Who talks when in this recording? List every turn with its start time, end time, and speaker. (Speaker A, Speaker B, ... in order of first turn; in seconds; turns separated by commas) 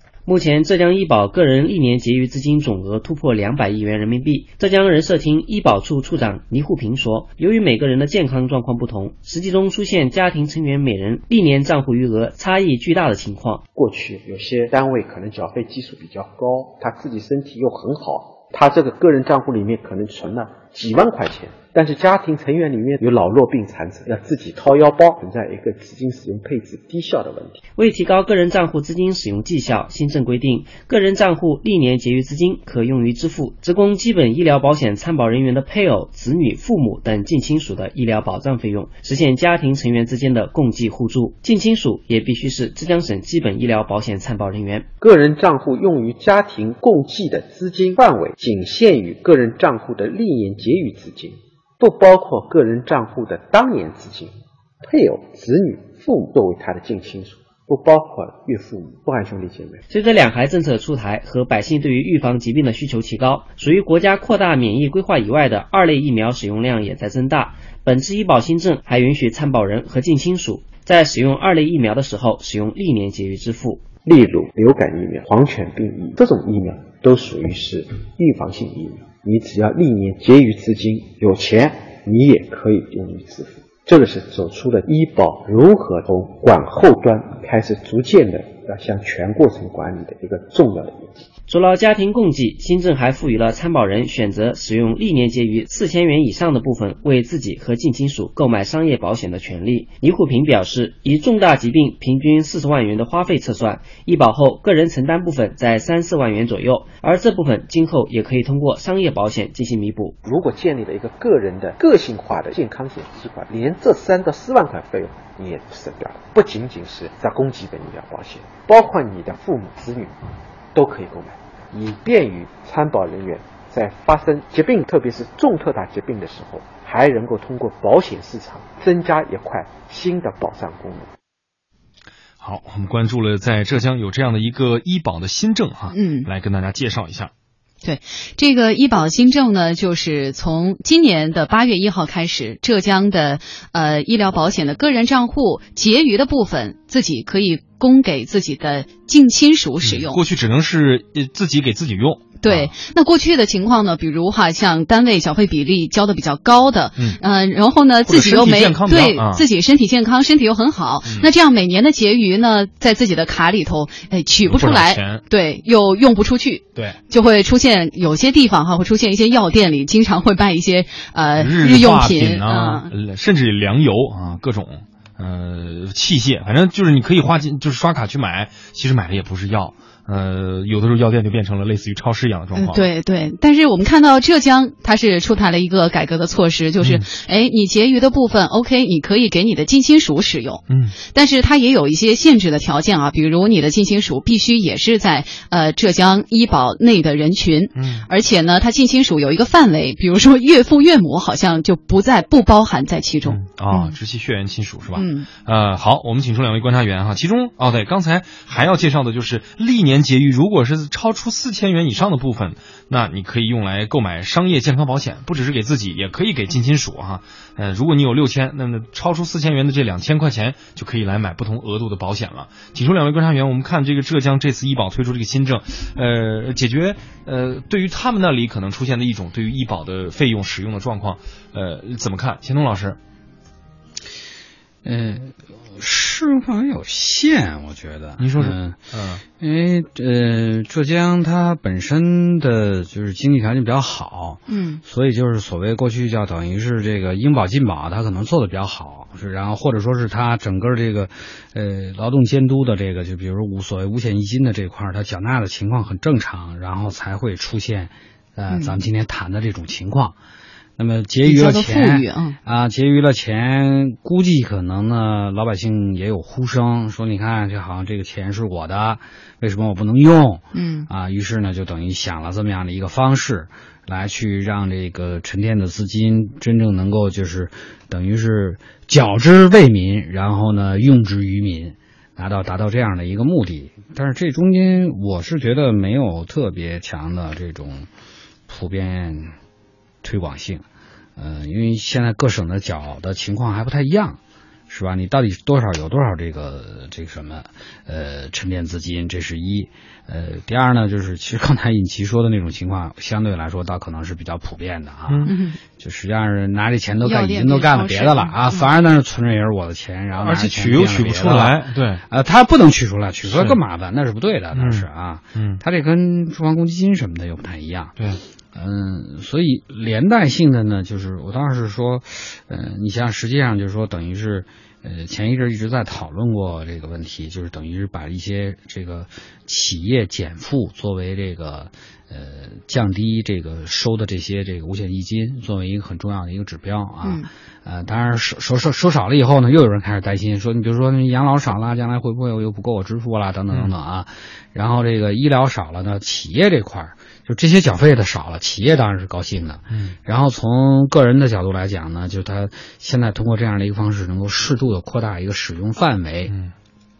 Speaker A: 0.3-13.6, Speaker B: 13.8-27.6, Speaker A: 27.8-44.9, Speaker B: 45.0-54.3, Speaker B: 54.8-59.8, Speaker A: 59.9-73.8, Speaker B: 74.0-91.1, Speaker A: 91.5-110.2, Speaker B: 110.2-131.1, Speaker C: 132.4-137.3, Speaker D: 135.9-136.3, Speaker D: 137.8-150.2, Speaker C: 149.8-152.7, Speaker D: 152.4-172.9, Speaker C: 158.1-159.4, Speaker C: 161.1-161.3, Speaker C: 164.5-165.2, Speaker C: 171.3-182.9, Speaker D: 182.6-204.0, Speaker C: 186.8-187.1, Speaker C: 190.7-191.0, Speaker C: 197.8-198.1, Speaker C: 203.2-233.0, Speaker D: 204.9-205.3, Speaker E: 234.8-238.8, Speaker C: 238.2-239.2, Speaker E: 239.4-260.2, Speaker D: 244.5-244.8, Speaker E: 260.8-287.9, Speaker D: 261.2-262.4, Speaker D: 270.5-270.9, Speaker E: 288.5-289.3, Speaker E: 290.0-290.6, Speaker E: 291.2-317.9, Speaker C: 305.1-305.3, Speaker D: 305.2-305.6, Speaker D: 307.0-308.7, Speaker C: 310.2-312.0, Speaker C: 313.3-313.6, Speaker C: 314.5-315.6, Speaker C: 318.0-318.2, Speaker E: 318.5-356.3